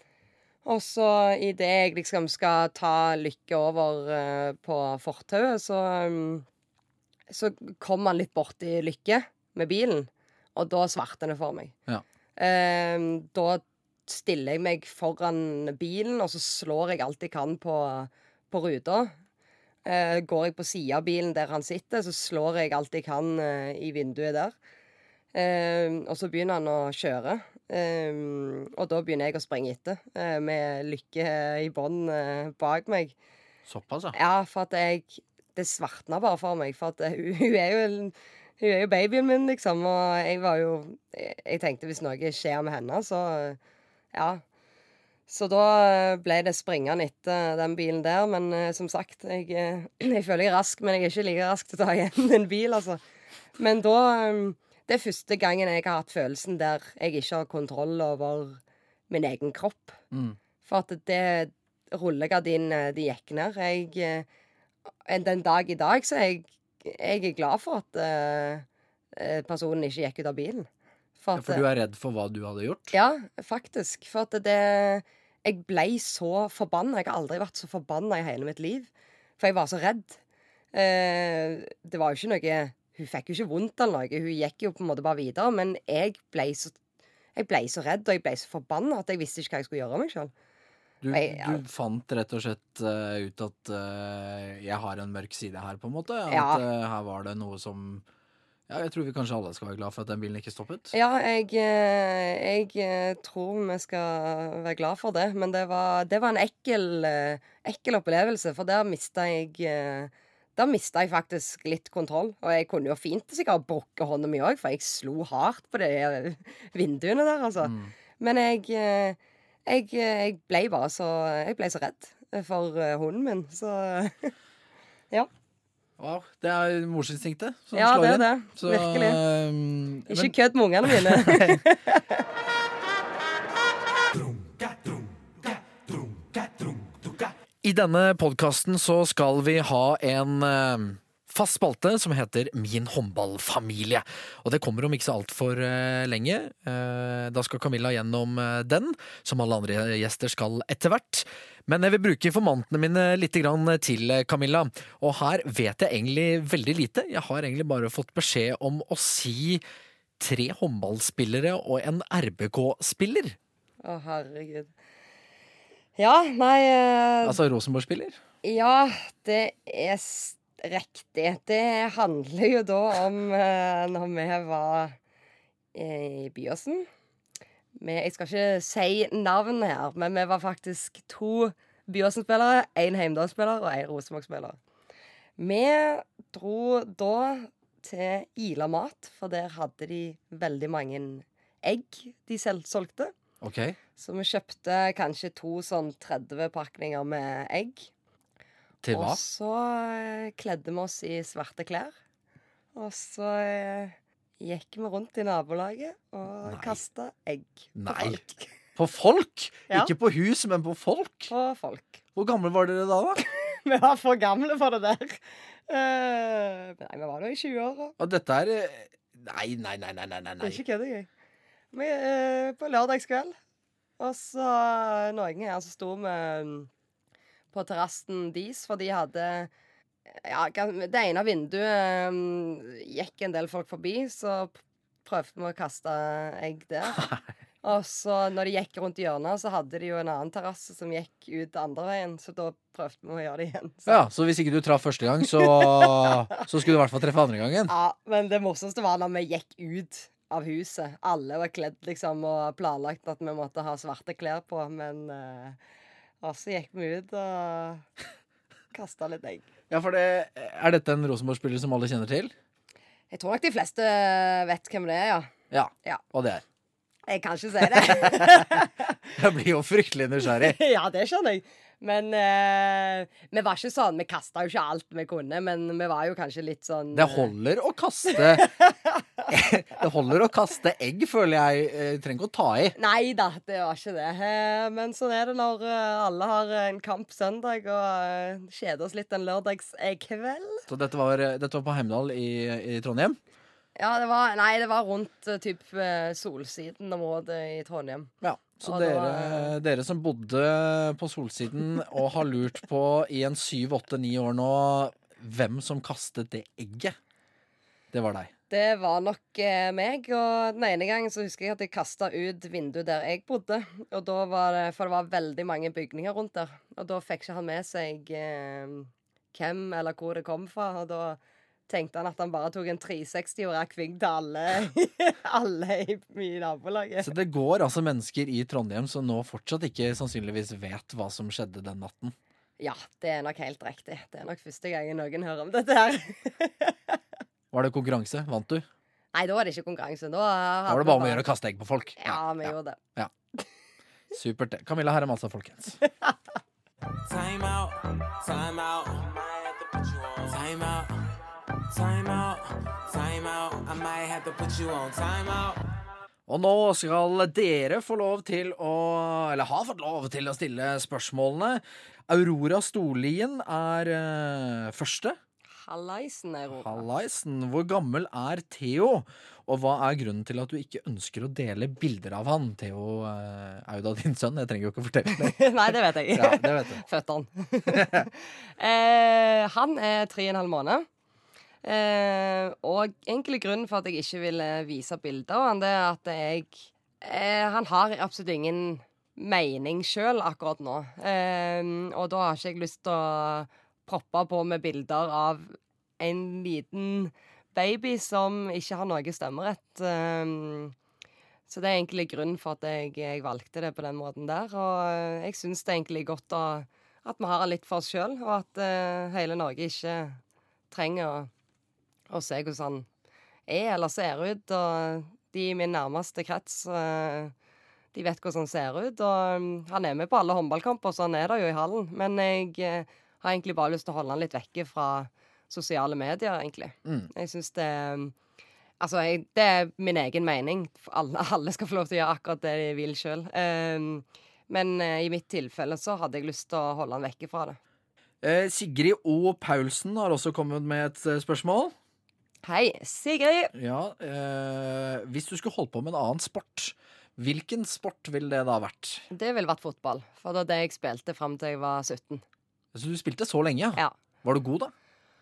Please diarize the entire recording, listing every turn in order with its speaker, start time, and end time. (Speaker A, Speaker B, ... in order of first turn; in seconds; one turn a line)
Speaker A: 0.6-6.5
Speaker A: 7.3-11.7
Speaker A: 12.4-19.1
Speaker A: 19.8-24.5
Speaker A: 25.3-33.1
Speaker B: 33.7-34.1
Speaker A: 34.1-43.6
Speaker A: 44.1-44.4
Speaker A: 45.3-53.0
Speaker A: 53.6-60.0
Speaker B: 60.1-60.4
Speaker A: 60.6-64.3
Speaker A: 65.0-70.7
Speaker A: 71.2-71.6
Speaker B: 71.3-72.9
Speaker A: 72.9-80.2
Speaker A: 80.7-86.8
Speaker A: 87.3-90.3
Speaker B: 91.0-98.0
Speaker A: 91.1-91.6
Speaker A: 96.3-96.6
Speaker B: 98.7-100.9
Speaker A: 100.9-124.3
Speaker B: 117.6-117.9
Speaker B: 126.0-131.6
Speaker A: 127.7-129.2
Speaker A: 130.1-132.2
Speaker B: 137.6-159.6
Speaker B: 160.2-163.4
Speaker A: 163.8-164.7
Speaker A: 166.0-167.4
Speaker B: 167.2-168.2
Speaker A: 168.4-175.0
Speaker A: 175.7-176.9
Speaker A: 177.8-184.6
Speaker A: 185.4-193.1
Speaker B: 193.4-193.8
Speaker A: 194.0-197.9
Speaker B: 198.8-199.2
Speaker A: 198.9-201.9
Speaker A: 202.7-208.5
Speaker B: 206.4-206.8
Speaker B: 207.7-208.2
Speaker B: 208.8-211.3
Speaker A: 211.3-212.0
Speaker B: 212.2-213.2
Speaker A: 213.2-217.9
Speaker B: 218.0-220.6
Speaker A: 220.4-221.1
Speaker A: 221.7-223.3
Speaker A: 224.0-226.7
Speaker A: 227.5-229.5
Speaker A: 230.1-237.0
Speaker B: 236.9-237.2
Speaker A: 237.6-244.0
Speaker B: 243.8-247.7
Speaker A: 245.4-246.1
Speaker A: 247.7-255.6
Speaker A: 256.2-257.8
Speaker A: 258.7-259.4
Speaker B: 259.7-262.3
Speaker A: 263.1-265.3
Speaker B: 265.5-266.4
Speaker A: 267.1-268.9
Speaker B: 267.6-268.4
Speaker B: 269.1-270.6
Speaker A: 270.2-277.3
Speaker B: 276.9-278.5
Speaker A: 278.1-279.2
Speaker B: 279.3-282.8
Speaker A: 282.8-290.6
Speaker B: 290.7-293.2
Speaker A: 293.8-298.1
Speaker B: 298.2-307.0
Speaker A: 298.6-299.5
Speaker B: 307.9-308.3
Speaker A: 308.5-327.1
Speaker B: 327.0-332.1
Speaker A: 332.6-337.0
Speaker B: 337.5-338.6
Speaker A: 339.1-341.2
Speaker B: 340.7-343.1
Speaker A: 342.0-342.8
Speaker B: 344.1-345.8
Speaker C: 347.1-355.7
Speaker B: 356.3-365.2
Speaker A: 365.6-366.8
Speaker B: 366.6-375.5
Speaker A: 375.1-380.9
Speaker B: 376.1-376.8
Speaker B: 377.7-378.1
Speaker A: 381.6-400.7
Speaker A: 401.5-410.2
Speaker A: 410.7-411.3
Speaker A: 412.1-412.9
Speaker A: 413.5-417.3
Speaker A: 417.9-428.1
Speaker A: 428.8-437.6
Speaker B: 438.2-441.7
Speaker A: 442.4-443.5
Speaker B: 443.5-449.0
Speaker A: 449.1-452.2
Speaker B: 452.7-454.7